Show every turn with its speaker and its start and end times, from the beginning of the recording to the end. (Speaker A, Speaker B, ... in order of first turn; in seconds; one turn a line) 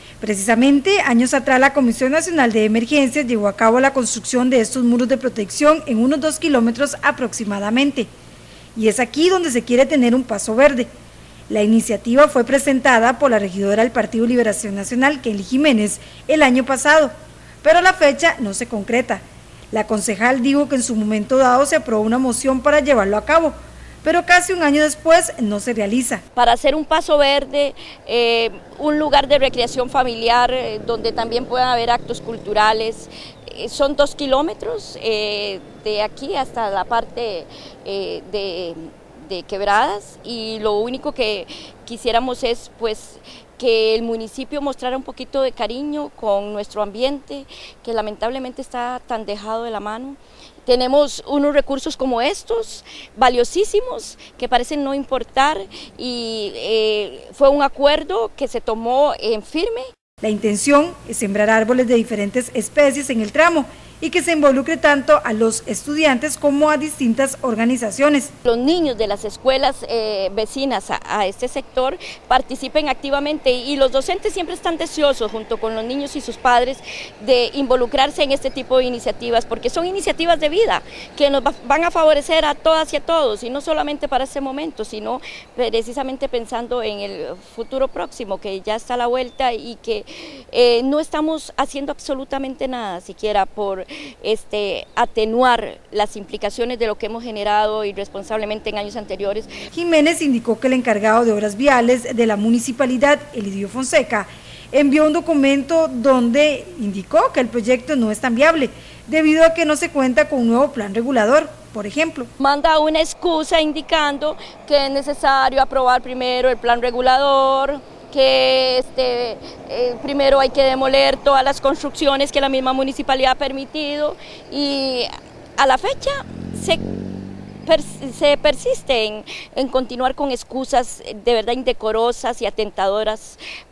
Speaker A: 0.2-8.1
Speaker A: 8.7-10.9
Speaker A: 11.5-17.1
Speaker A: 17.6-26.2
Speaker B: 26.4-59.9
Speaker A: 60.2-68.3
Speaker B: 68.4-99.6
Speaker A: 99.7-112.3
Speaker B: 112.4-126.8
Speaker B: 127.6-133.4